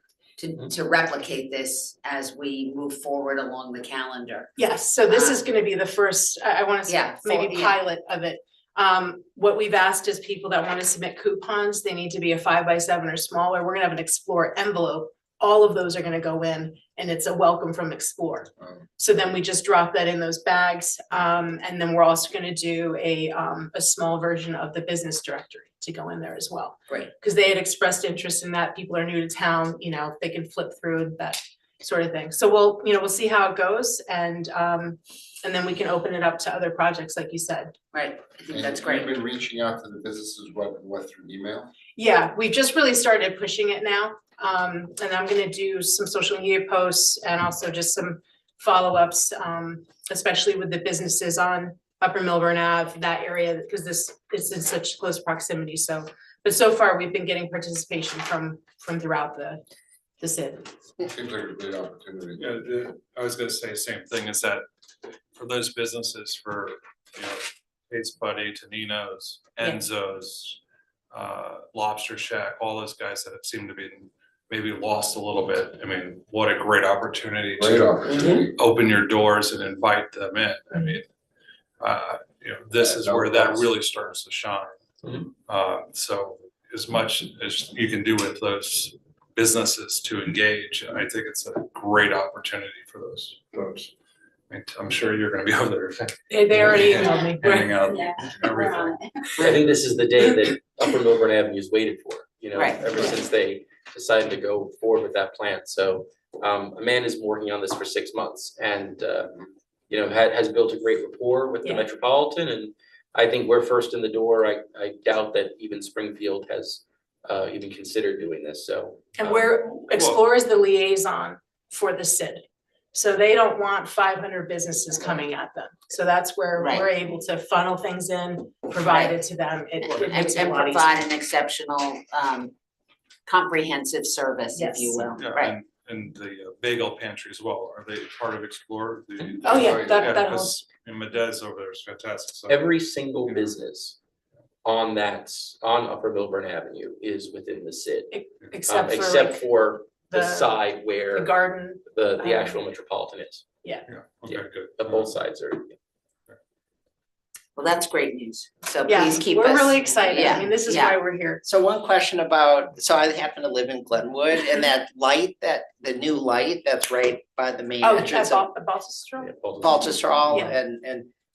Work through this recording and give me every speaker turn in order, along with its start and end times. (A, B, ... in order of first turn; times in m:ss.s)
0:00.4-0:04.5 A
0:04.6-0:37.7 B
0:05.1-0:05.5 A
0:06.9-0:07.8 A
0:37.9-0:39.2 A
0:38.5-0:41.7 C
0:42.0-0:59.6 B
1:00.2-1:00.7 B
1:01.0-1:02.5 C
1:02.4-1:04.6 D
1:05.4-1:10.6 D
1:11.1-1:21.1 D
1:17.6-1:18.6 C
1:21.8-1:33.9 D
1:22.8-1:23.7 C
1:34.5-1:39.0 D
1:36.3-1:37.7 B
1:39.4-1:49.4 E
1:42.6-1:42.8 A
1:49.9-1:59.2 E
1:59.2-2:11.0 B
1:59.9-2:00.2 D
2:06.6-2:06.9 A
2:08.8-2:09.1 A
2:09.8-2:12.5 A
2:13.3-2:15.5 A
2:14.6-2:15.1 B
2:15.2-2:22.6 D
2:19.4-2:20.6 B
2:19.4-2:20.2 C
2:22.5-2:24.0 E
2:23.2-2:23.5 D
2:24.6-2:31.4 E
2:28.1-2:29.5 B
2:30.1-2:30.6 B
2:31.1-2:32.6 B
2:31.9-2:33.4 E
2:33.9-2:35.1 D
2:34.3-2:35.7 E
2:37.6-2:40.9 A
2:38.8-2:41.4 B
2:41.4-2:48.5 F
2:47.8-2:49.3 B
2:49.2-2:50.5 E
2:49.6-2:51.1 F
2:50.3-2:50.5 B